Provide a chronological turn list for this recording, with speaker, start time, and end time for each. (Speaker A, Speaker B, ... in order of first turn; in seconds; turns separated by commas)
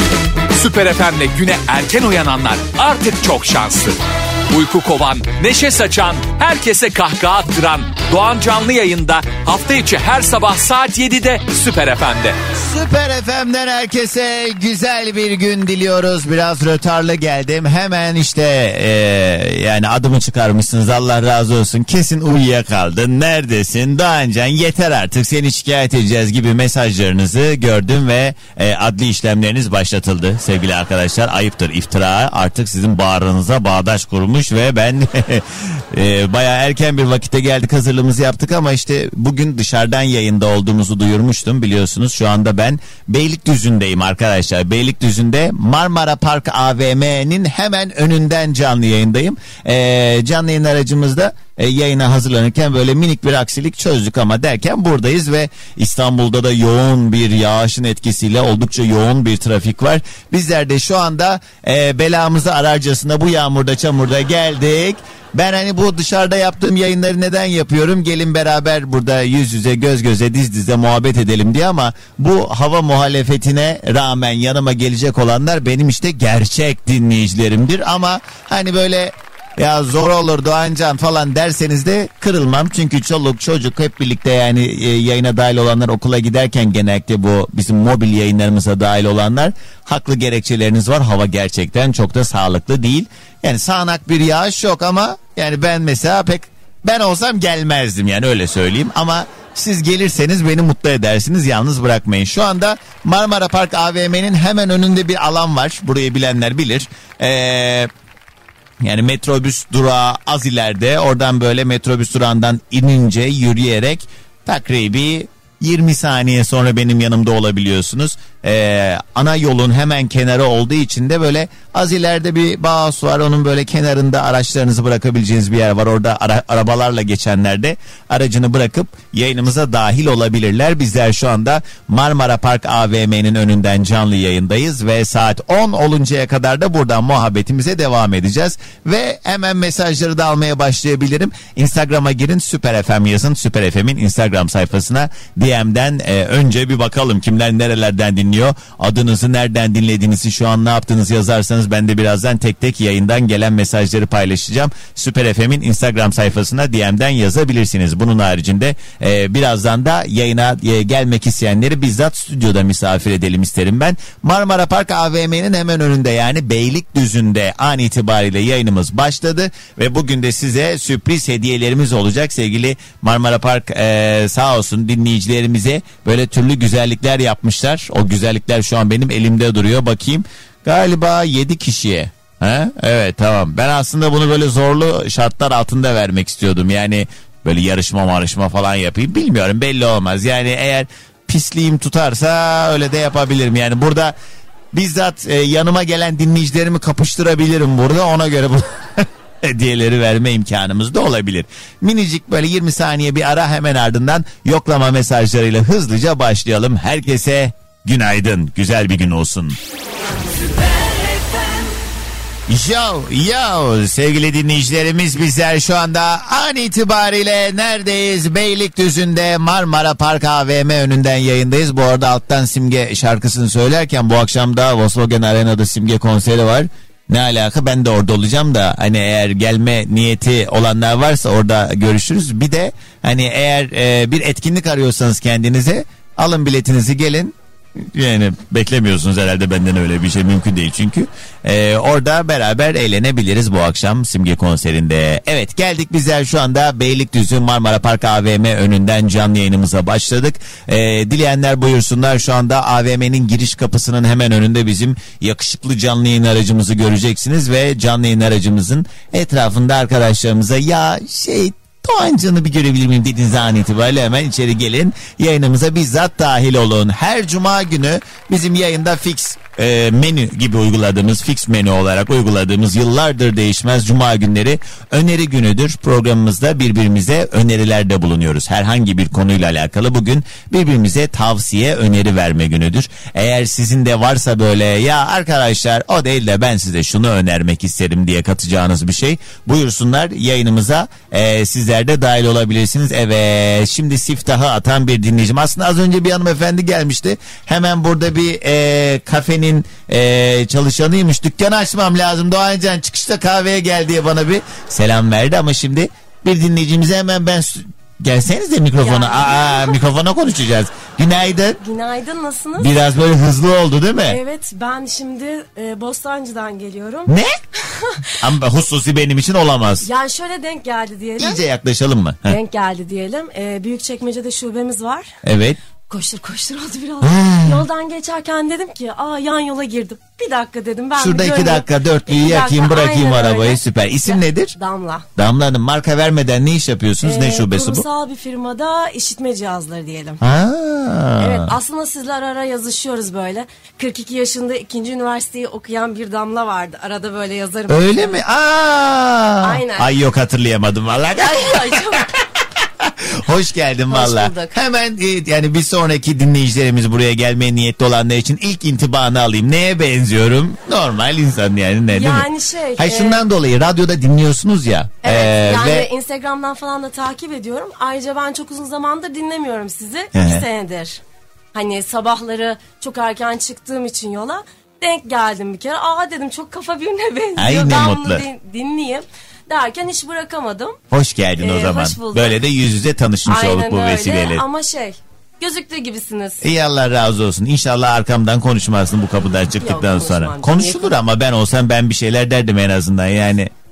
Speaker A: 0.5-4.0, Speaker A: 4.5-12.4, Speaker B: 12.6-107.9, Speaker B: 108.8-194.2, Speaker B: 194.7-209.6, Speaker B: 212.5-311.6, Speaker C: 308.8-309.8, Speaker C: 311.6-312.7, Speaker B: 312.6-314.2, Speaker C: 314.1-317.1, Speaker B: 317.1-317.4, Speaker C: 317.6-318.2, Speaker B: 318.2-319.9, Speaker C: 319.8-321.4, Speaker B: 321.2-322.4, Speaker C: 322.3-325.1, Speaker B: 325.2-325.6, Speaker C: 325.9-335.1, Speaker B: 327.0-327.6, Speaker B: 331.0-334.6, Speaker B: 335.2-337.9, Speaker C: 337.0-340.2, Speaker B: 340.2-341.5, Speaker C: 341.2-348.2, Speaker B: 347.7-352.1, Speaker C: 349.4-349.9, Speaker C: 351.2-352.1, Speaker B: 352.8-365.9, Speaker C: 353.9-354.5, Speaker C: 361.9-363.2, Speaker C: 365.0-371.0, Speaker B: 370.1-370.4, Speaker C: 371.5-380.8, Speaker B: 377.4-378.2, Speaker B: 380.9-384.4, Speaker C: 381.4-382.4, Speaker C: 383.3-386.4, Speaker B: 386.4-393.5, Speaker C: 389.6-391.0